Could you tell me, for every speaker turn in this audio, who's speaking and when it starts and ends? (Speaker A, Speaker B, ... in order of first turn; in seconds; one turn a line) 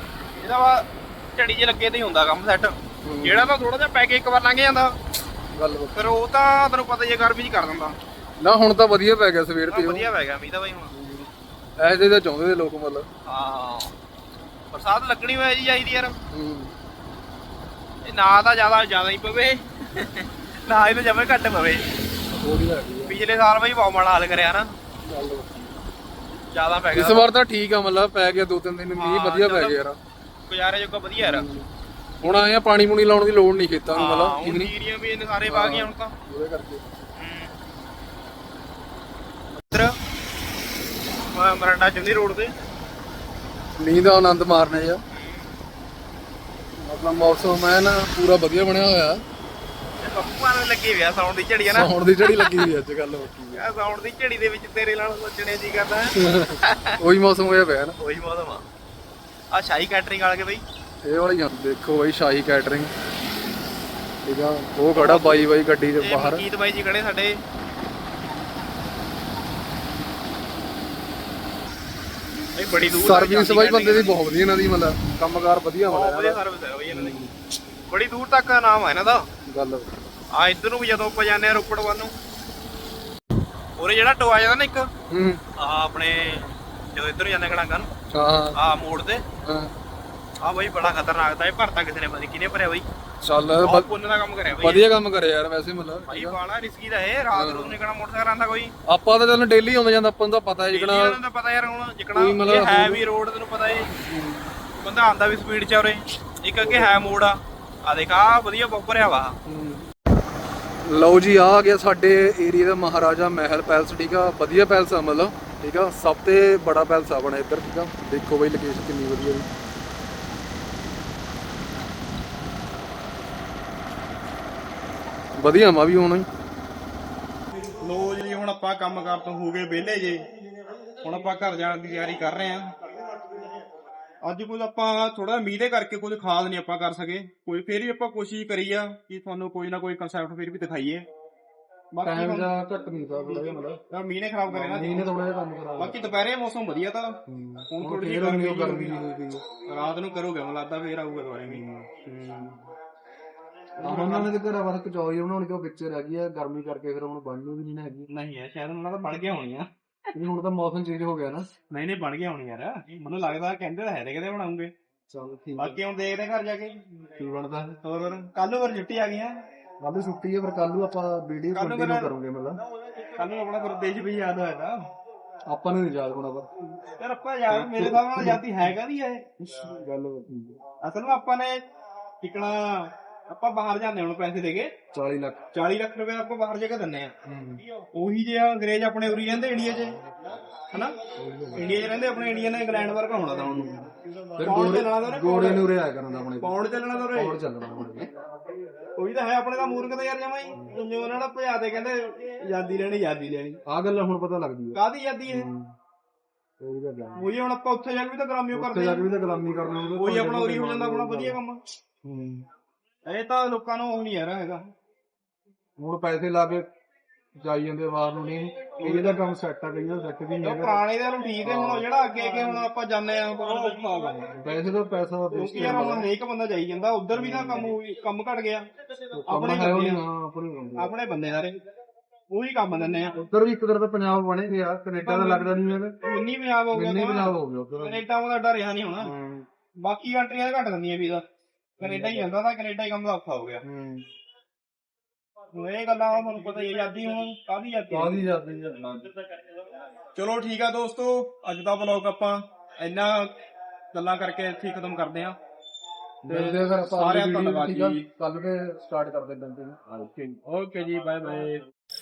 Speaker A: 0.4-0.8
Speaker A: 1.4-5.0
Speaker B: 3.0-3.5
Speaker B: 5.5-6.1
Speaker A: 5.9-8.0
Speaker B: 8.4-10.1
Speaker A: 9.7-10.9
Speaker B: 10.9-11.3
Speaker B: 11.8-13.1
Speaker A: 13.2-13.9
Speaker A: 14.7-16.2
Speaker B: 16.3-16.7
Speaker A: 18.0-21.9
Speaker B: 22.3-23.2
Speaker A: 23.1-24.7
Speaker B: 25.0-25.7
Speaker A: 26.5-27.3
Speaker B: 26.9-30.0
Speaker A: 28.9-29.8
Speaker A: 30.5-31.5
Speaker B: 31.2-31.7
Speaker B: 32.2-34.7
Speaker A: 33.9-36.1
Speaker B: 35.5-36.8
Speaker A: 37.1-37.5
Speaker A: 39.6-39.9
Speaker A: 41.3-42.5
Speaker B: 43.8-45.0
Speaker B: 46.8-49.2
Speaker A: 50.0-52.7
Speaker B: 51.6-53.6
Speaker A: 53.5-56.9
Speaker B: 56.1-58.0
Speaker A: 58.0-58.6
Speaker A: 59.5-60.6
Speaker B: 61.0-62.9
Speaker B: 64.2-66.4
Speaker A: 64.9-67.4
Speaker A: 72.5-74.2
Speaker B: 73.0-76.4
Speaker A: 75.9-77.3
Speaker B: 76.9-77.3
Speaker A: 77.9-79.3
Speaker B: 79.5-79.9
Speaker A: 80.3-82.1
Speaker A: 83.8-84.9
Speaker B: 85.1-85.4
Speaker A: 85.6-87.9
Speaker B: 88.1-88.5
Speaker A: 88.5-89.2
Speaker B: 89.4-89.7
Speaker A: 90.4-92.9
Speaker B: 93.2-93.9
Speaker A: 93.6-94.9
Speaker B: 94.6-96.4
Speaker A: 96.1-98.7
Speaker B: 97.3-97.8
Speaker B: 98.9-101.2
Speaker A: 100.7-103.9
Speaker B: 102.1-103.0
Speaker B: 104.0-104.5
Speaker A: 104.8-109.3
Speaker B: 106.6-107.1
Speaker B: 109.5-109.8
Speaker B: 110.8-119.5
Speaker B: 125.4-126.3
Speaker A: 127.8-130.3
Speaker A: 131.0-132.8
Speaker A: 134.2-141.1
Speaker A: 141.9-142.5
Speaker B: 142.0-143.8
Speaker A: 143.2-145.1
Speaker B: 144.5-146.1
Speaker A: 145.8-147.2
Speaker B: 147.3-149.6
Speaker A: 147.7-149.0
Speaker A: 149.6-151.7
Speaker B: 151.5-152.5
Speaker A: 153.8-154.3
Speaker B: 153.8-158.1
Speaker A: 158.1-159.7
Speaker B: 160.1-161.5
Speaker A: 161.7-164.7
Speaker B: 165.1-165.8
Speaker A: 165.6-166.8
Speaker B: 167.2-167.8
Speaker A: 167.8-169.4
Speaker B: 169.8-172.6
Speaker A: 171.5-172.1
Speaker A: 173.0-174.9
Speaker B: 175.5-176.5
Speaker A: 177.0-179.3
Speaker B: 177.5-178.5
Speaker B: 179.4-180.6
Speaker A: 180.8-181.6
Speaker A: 182.2-184.7
Speaker B: 184.9-185.4
Speaker A: 185.5-187.1
Speaker B: 187.2-187.6
Speaker A: 187.9-190.0
Speaker A: 190.7-191.0
Speaker B: 191.2-191.9
Speaker A: 191.5-193.9
Speaker B: 194.3-196.5
Speaker A: 194.4-195.7
Speaker A: 196.4-197.4
Speaker B: 197.1-198.1
Speaker A: 199.0-203.6
Speaker B: 203.7-205.7
Speaker A: 204.7-205.5
Speaker B: 206.6-207.3
Speaker A: 207.1-209.2
Speaker B: 208.5-211.4
Speaker A: 209.7-211.6
Speaker B: 212.0-212.4
Speaker A: 213.1-214.7
Speaker B: 215.8-216.7
Speaker B: 217.4-220.8
Speaker A: 218.8-219.2
Speaker A: 220.4-224.6
Speaker B: 221.4-221.9
Speaker B: 224.3-226.1
Speaker A: 225.3-228.7
Speaker B: 227.1-227.8
Speaker B: 229.1-230.9
Speaker A: 229.2-230.0
Speaker A: 230.8-231.6
Speaker A: 232.3-233.2
Speaker B: 233.1-236.0
Speaker A: 235.0-239.1
Speaker B: 236.7-238.0
Speaker B: 239.0-239.4
Speaker A: 239.8-241.2
Speaker A: 241.8-243.6
Speaker B: 241.8-242.3
Speaker B: 243.6-244.1
Speaker A: 245.5-248.2
Speaker B: 247.9-249.1
Speaker A: 250.1-253.3
Speaker A: 253.9-255.4
Speaker B: 256.2-260.4
Speaker A: 256.2-258.1
Speaker A: 260.2-261.6